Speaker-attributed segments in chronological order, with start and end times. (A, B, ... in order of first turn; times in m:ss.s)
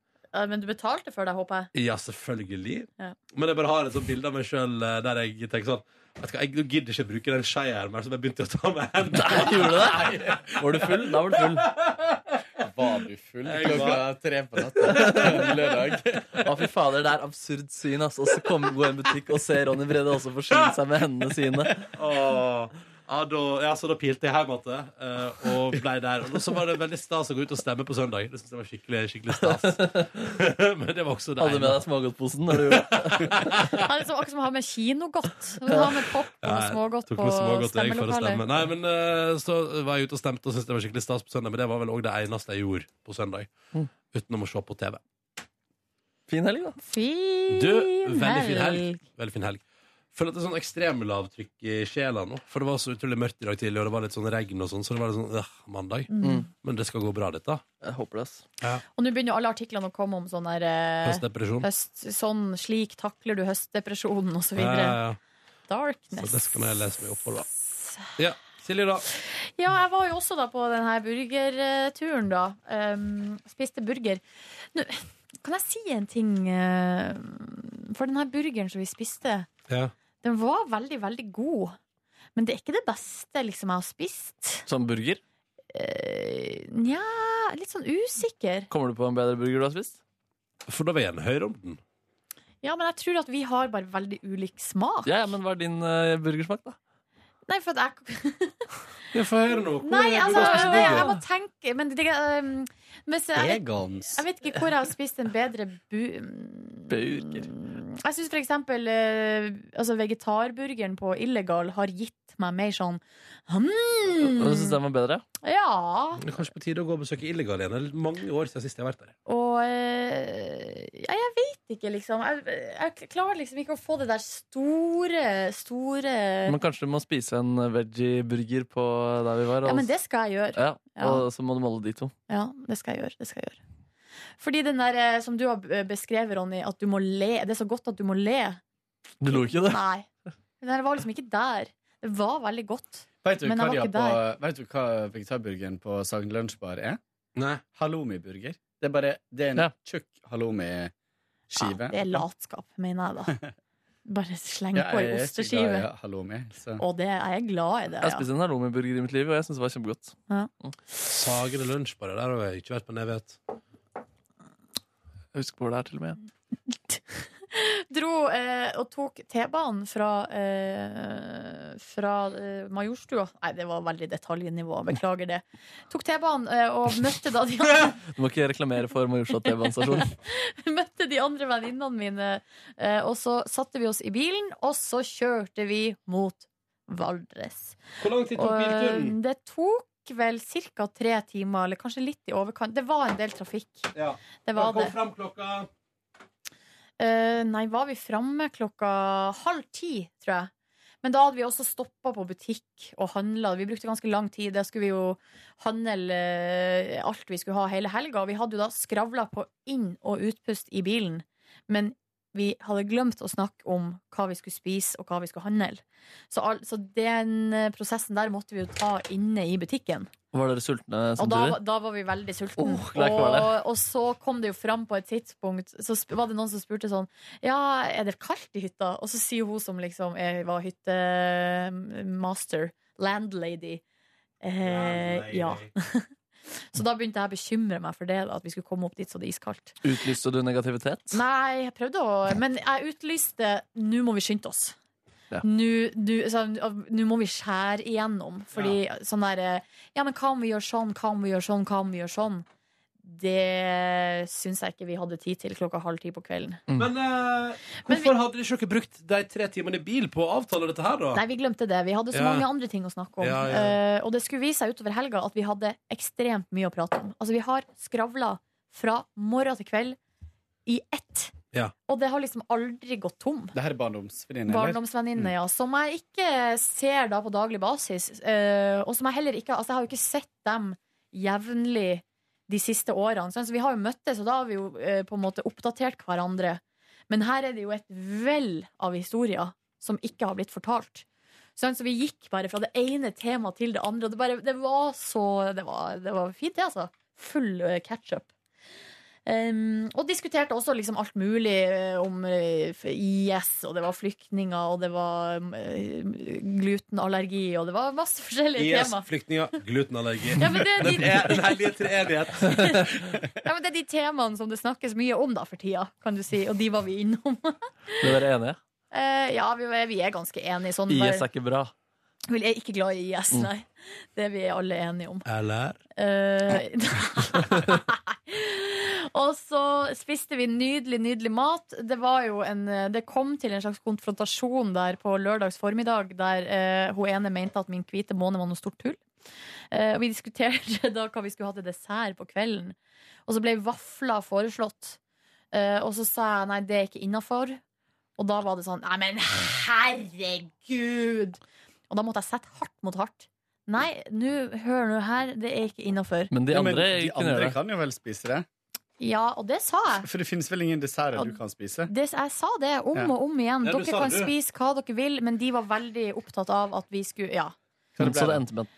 0:00.3-0:01.7 A
0:01.7-0:10.0 B
0:09.2-0:11.7 C
0:09.8-0:11.0 D
0:11.8-0:12.4 B
0:12.6-0:16.4 D
0:13.5-0:14.0 B
0:14.8-0:15.6 B
0:14.9-0:15.5 C
0:16.4-0:21.9 C
0:21.9-0:31.8 B
0:29.4-0:30.2 C
0:31.4-0:33.6 C
0:32.5-0:33.8 B
0:33.8-0:38.4 A
0:36.4-0:45.0 B
0:46.3-0:46.8 C
0:46.8-0:49.0 A
0:47.5-0:49.6 B
0:50.1-0:57.6 B
0:56.1-0:56.5 A
0:56.2-0:56.5 C
0:57.8-0:58.4 C
0:59.0-1:05.0 A
1:01.0-1:01.7 B
1:04.6-1:05.2 B
1:05.7-1:06.8 A
1:06.1-1:07.5 B
1:07.5-1:08.1 A
1:08.2-1:09.0 B
1:09.1-1:19.5 A
1:20.2-1:21.8 A
1:22.4-1:24.7 A
1:24.7-1:25.2 C
1:25.7-1:28.7 A
1:28.7-1:30.0 C
1:30.7-1:31.8 B
1:32.6-1:35.3 A
1:35.0-1:36.8 C
1:37.5-1:38.7 A
1:39.1-1:41.1 B
1:39.8-1:54.8 A
1:40.3-1:41.1 C
1:43.4-1:44.2 D
1:46.9-1:47.5 C
1:54.2-1:55.2 C
1:55.4-1:56.2 A
1:56.2-1:59.1 B
1:59.3-2:06.6 A
2:06.5-2:09.9 C
2:09.6-2:11.2 A
2:10.6-2:12.1 C
2:12.3-2:13.6 A
2:14.4-2:18.6 A
2:19.2-2:19.8 C
2:19.3-2:20.1 A
2:20.6-2:24.2 A
2:23.2-2:27.0 D
2:27.4-2:27.6 B
2:27.7-2:30.9 D
2:31.5-2:32.2 D
2:31.6-2:33.4 A
2:34.1-2:35.9 A
2:34.8-2:36.8 D
2:36.8-2:38.3 A
2:38.0-2:40.7 C
2:41.0-2:43.4 B
2:45.3-2:46.2 C
2:46.9-2:58.0 A
2:58.0-3:00.2 C
2:59.4-3:07.8 A
3:08.0-3:09.2 B
3:08.4-3:13.9 A
3:13.9-3:15.7 B
3:14.4-3:15.0 A
3:17.0-3:20.5 A
3:21.0-3:40.1 A
3:40.3-3:41.6 C
3:41.2-3:53.8 A
3:42.6-3:43.6 C
3:54.4-3:56.1 A
3:54.6-3:55.7 B
3:56.6-3:59.8 A
3:59.8-4:01.2 C
4:01.1-4:04.8 A
4:05.4-4:12.4 A
4:13.0-4:16.6 A
4:16.8-4:21.2 B
4:21.2-4:30.0 A
4:22.1-4:22.5 B
4:23.2-4:23.8 B
4:30.7-4:31.3 A
4:31.9-4:33.5 A
4:33.5-4:35.3 D
4:34.5-4:51.0 A
4:51.6-4:58.3 A
4:59.3-5:09.1 A
5:08.6-5:12.8 B
5:10.4-5:11.7 A
5:12.4-5:18.2 A
5:18.0-5:18.6 C
5:18.9-5:21.3 A
5:20.9-5:21.7 C
5:22.3-5:25.2 A
5:25.2-5:25.8 B
5:26.0-5:39.0 A
5:39.7-5:42.8 A
5:43.3-5:45.0 A
5:45.5-5:47.6 A
5:48.2-5:51.4 A
5:51.9-5:56.3 A
5:56.3-5:57.6 C
5:56.5-5:58.5 D
5:59.0-6:00.1 A
6:00.0-6:01.9 D
6:01.9-6:07.6 A
6:03.6-6:04.3 B
6:08.0-6:08.4 D
6:08.0-6:08.7 C